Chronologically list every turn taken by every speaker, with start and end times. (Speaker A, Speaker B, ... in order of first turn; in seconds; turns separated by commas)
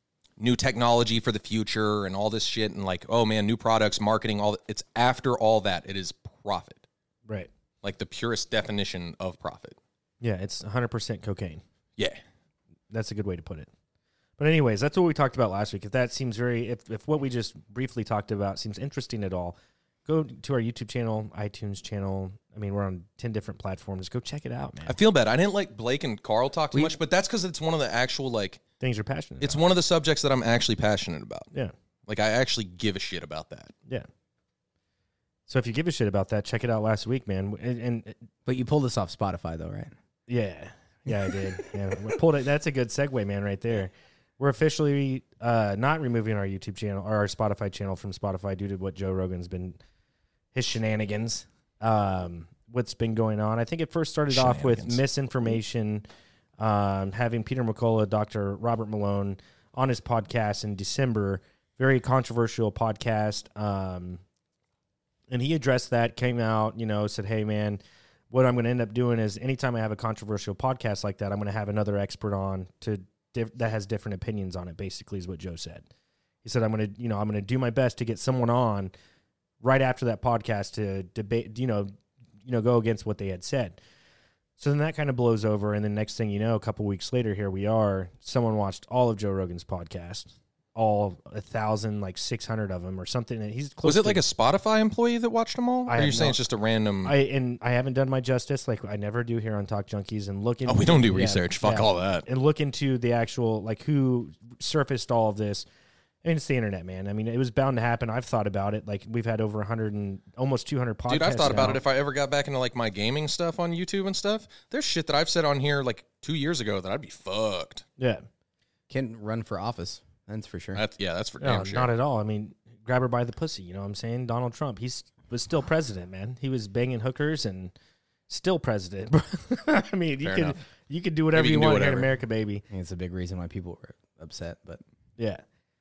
Speaker A: 0.4-6.8, Speaker A: 7.8-9.8, Speaker B: 10.2-11.6, Speaker B: 12.9-13.7, Speaker B: 14.4-24.9, Speaker A: 24.9-28.6, Speaker B: 28.8-29.6, Speaker A: 29.4-31.5, Speaker A: 32.0-33.7, Speaker B: 35.5-38.1, Speaker C: 38.5-39.9, Speaker B: 40.3-49.8, Speaker B: 50.5-56.0, Speaker A: 54.3-55.0, Speaker B: 56.6-64.2, Speaker B: 65.3-67.8, Speaker B: 68.3-75.8, Speaker B: 76.4-78.9, Speaker B: 79.6-81.9, Speaker B: 82.4-83.8, Speaker B: 84.6-94.2, Speaker A: 93.8-97.1, Speaker B: 95.9-96.4, Speaker B: 97.0-105.6, Speaker A: 100.6-102.2, Speaker B: 106.2-111.8, Speaker A: 111.1-117.8, Speaker B: 118.0-118.2, Speaker C: 118.9-120.8, Speaker A: 120.7-121.9, Speaker B: 121.4-127.7, Speaker B: 128.3-132.6, Speaker A: 130.2-130.6, Speaker A: 131.3-132.1, Speaker C: 132.7-134.8